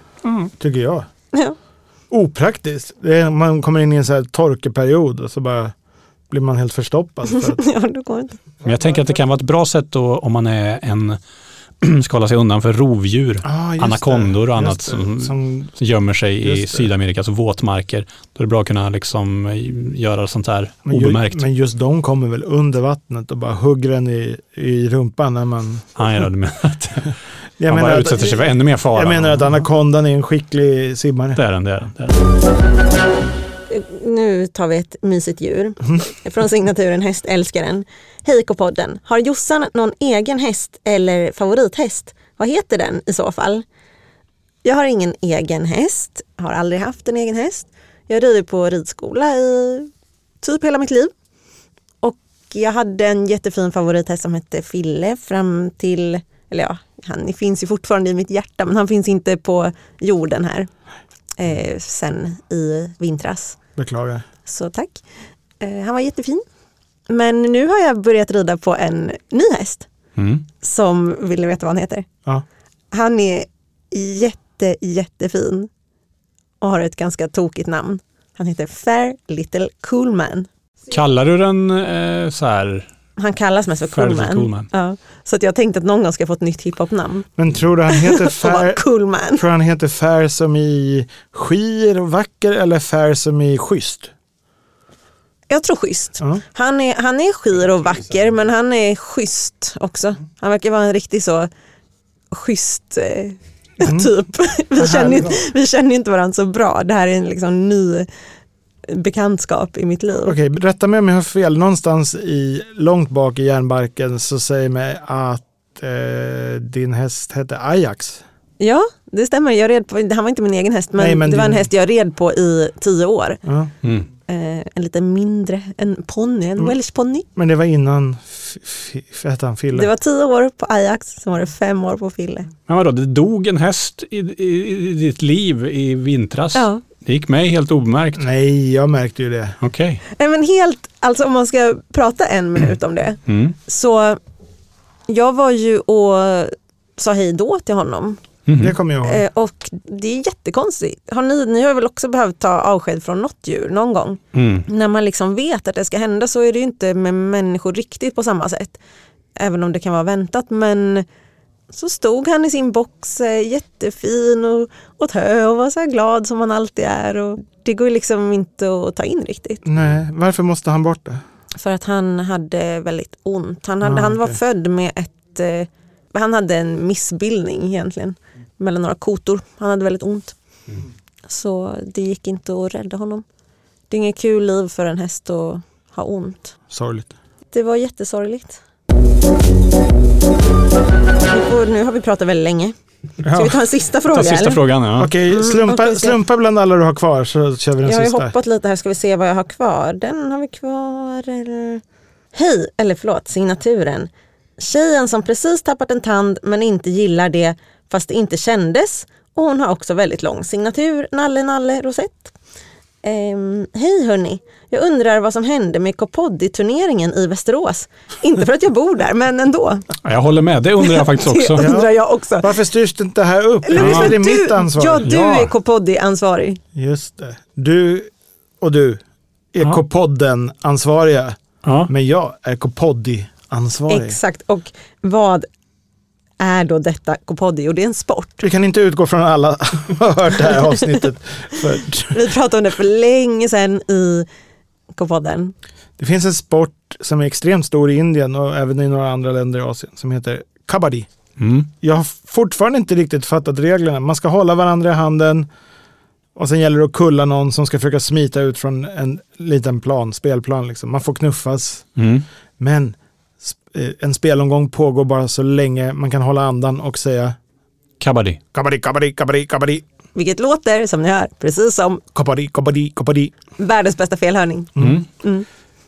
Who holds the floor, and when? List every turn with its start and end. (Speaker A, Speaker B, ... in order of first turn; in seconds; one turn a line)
Speaker A: 0.2-0.5
Speaker B: 0.6-1.1
Speaker B: 2.1-5.7
Speaker B: 6.3-7.6
Speaker C: 7.3-8.4
Speaker A: 8.6-11.2
Speaker A: 11.8-21.4
Speaker B: 13.4-15.7
Speaker B: 16.4-16.8
Speaker B: 20.9-26.0
Speaker A: 25.9-27.1
Speaker B: 27.6-31.4
Speaker A: 27.7-29.5
Speaker A: 31.4-32.1
Speaker C: 33.7-43.6
Speaker C: 44.6-49.9
Speaker C: 50.4-51.1
Speaker C: 52.0-60.7
Speaker C: 61.4-63.6
Speaker B: 63.8-64.2
Speaker C: 64.5-65.0
Speaker C: 65.6-66.4
Speaker C: 67.1-69.9
Speaker A: 70.2-70.4
Speaker C: 70.6-72.1
Speaker C: 72.9-75.7
Speaker C: 76.6-80.5
Speaker A: 80.9-82.9
Speaker C: 83.2-87.3
Speaker A: 83.9-84.7
Speaker B: 87.4-88.8
Speaker C: 87.9-89.4
Speaker B: 89.3-94.1
Speaker C: 95.5-101.5
Speaker C: 102.3-108.1
Speaker B: 103.8-104.1
Speaker B: 104.8-105.4
Speaker C: 108.9-110.3
Speaker B: 110.2-118.2
Speaker C: 118.6-123.4
Speaker B: 121.0-121.7
Speaker B: 123.4-123.7
Speaker C: 124.3-127.2
Speaker B: 127.3-129.9
Speaker C: 129.7-132.5
Speaker A: 132.7-138.2
Speaker C: 136.5-136.8
Speaker B: 138.2-139.6
Speaker A: 139.6-140.0
Speaker C: 140.2-144.2
Speaker A: 143.3-143.6
Speaker C: 145.1-148.2
Speaker A: 148.4-148.8
Speaker B: 148.6-149.2
Speaker C: 149.0-158.8
Speaker A: 154.3-154.7
Speaker C: 159.4-161.1
Speaker C: 161.7-169.6
Speaker B: 169.6-171.2
Speaker C: 171.6-180.3
Speaker B: 173.8-174.3
Speaker C: 181.3-183.2
Speaker C: 183.9-186.6
Speaker B: 186.7-187.1
Speaker C: 187.5-188.6
Speaker C: 191.3-192.8
Speaker B: 193.2-193.6
Speaker C: 193.3-194.6
Speaker A: 194.1-195.1
Speaker B: 195.0-198.3
Speaker C: 195.3-196.2
Speaker C: 197.8-201.8
Speaker C: 202.3-212.3
Speaker C: 213.0-219.9
Speaker A: 220.0-221.6
Speaker C: 220.8-222.5
Speaker B: 221.6-225.5
Speaker C: 223.6-226.6
Speaker A: 223.8-224.2
Speaker B: 226.7-228.1
Speaker B: 228.6-229.0
Speaker B: 229.5-234.2
Speaker A: 231.6-231.9
Speaker C: 233.9-235.5
Speaker C: 236.4-238.4
Speaker B: 238.4-242.2
Speaker C: 242.1-244.3
Speaker C: 244.9-245.5
Speaker B: 246.0-251.1
Speaker A: 251.4-251.7
Speaker B: 251.8-255.5
Speaker B: 256.4-261.9
Speaker A: 262.0-262.2
Speaker B: 262.6-267.4
Speaker A: 268.0-268.4
Speaker B: 268.5-269.8
Speaker C: 270.1-272.0
Speaker B: 272.1-273.4
Speaker C: 273.6-275.4
Speaker A: 274.8-275.0